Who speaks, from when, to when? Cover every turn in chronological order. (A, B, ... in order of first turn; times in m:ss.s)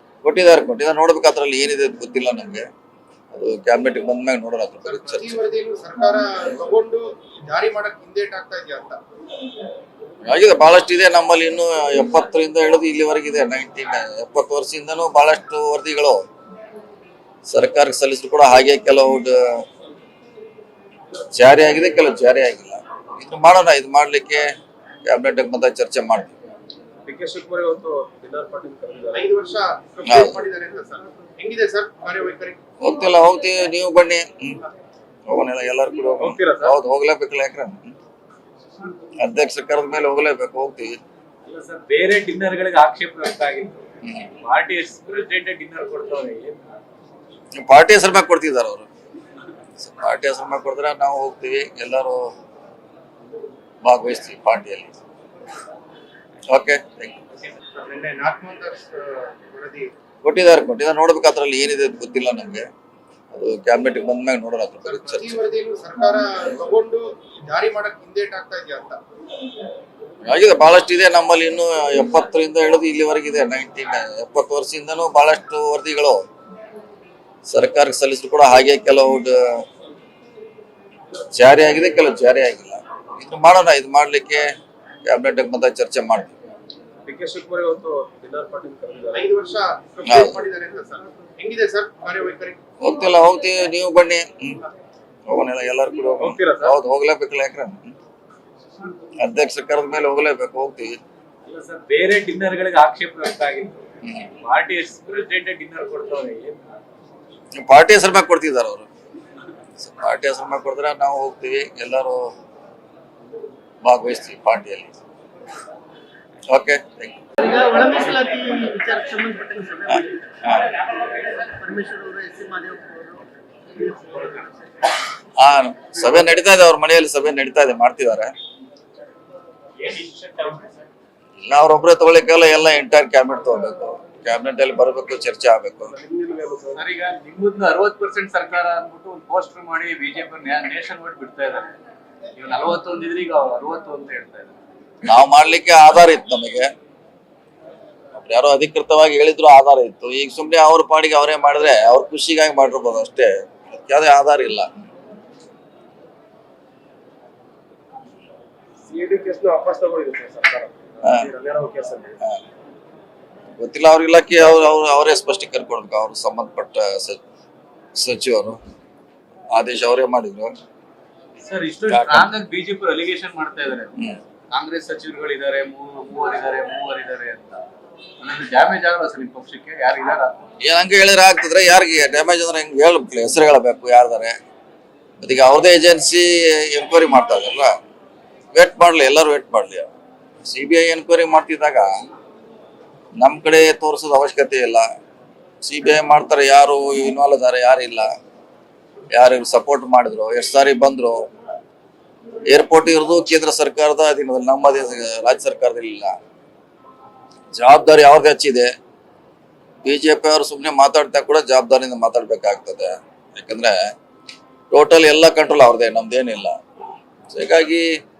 0:00.2-0:02.6 A
0:03.3-0:05.4 A
0:04.8-0:09.0 B
0:10.2-0:16.2 A
0:17.5-0:19.6 A
0:21.3-0:24.5 A
0:25.0-0:26.3 A
0:27.0-0:29.3 C
0:29.1-0:32.6 B
0:30.0-0:30.4 A
0:32.8-0:34.6 A
0:35.3-0:37.9 A
0:36.2-0:36.7 C
0:39.2-0:41.0 A
0:41.4-0:43.9 D
0:44.0-0:44.3 A
0:44.4-0:46.6 D
0:47.6-0:48.9 A
0:49.8-0:52.3 A
0:53.8-0:55.0 A
0:56.5-0:57.2 A
0:57.8-0:59.9 B
1:00.2-1:02.6 A
1:03.3-1:05.4 A
1:04.8-1:09.0 B
1:10.2-1:16.2 A
1:17.5-1:19.6 A
1:21.3-1:24.5 A
1:25.0-1:26.3 A
1:27.0-1:29.3 C
1:29.1-1:32.6 B
1:30.0-1:30.4 A
1:32.8-1:34.6 A
1:35.3-1:37.9 A
1:36.2-1:36.7 C
1:39.2-1:41.0 A
1:41.4-1:43.9 D
1:44.0-1:44.3 A
1:44.4-1:46.6 D
1:47.6-1:48.9 A
1:49.8-1:52.2 A
1:53.8-1:55.0 A
1:56.5-1:57.2 A
1:57.4-2:00.1 E
1:59.9-2:00.7 A
2:01.3-2:04.0 E
2:05.4-2:08.3 A
2:09.8-2:10.7 D
2:11.4-2:15.9 A
2:15.9-2:16.8 C
2:16.7-2:21.7 D
2:22.4-2:24.5 D
2:25.0-2:26.7 A
2:28.2-2:34.7 A
2:38.8-2:42.2 C
2:43.6-2:47.2 A
2:47.9-2:48.6 A
2:49.5-2:50.5 A
2:51.4-2:57.6 D
2:51.9-2:52.3 A
2:58.2-3:00.3 D
3:00.6-3:04.4 A
3:05.2-3:07.7 A
3:08.5-3:09.9 A
3:10.4-3:11.9 A
3:13.2-3:14.8 A
3:15.6-3:18.1 A
3:19.1-3:21.2 A
3:22.5-3:26.2 A
3:27.5-3:28.7 A
3:29.8-3:33.9 A
3:34.7-3:36.6 A
3:37.3-3:38.0 A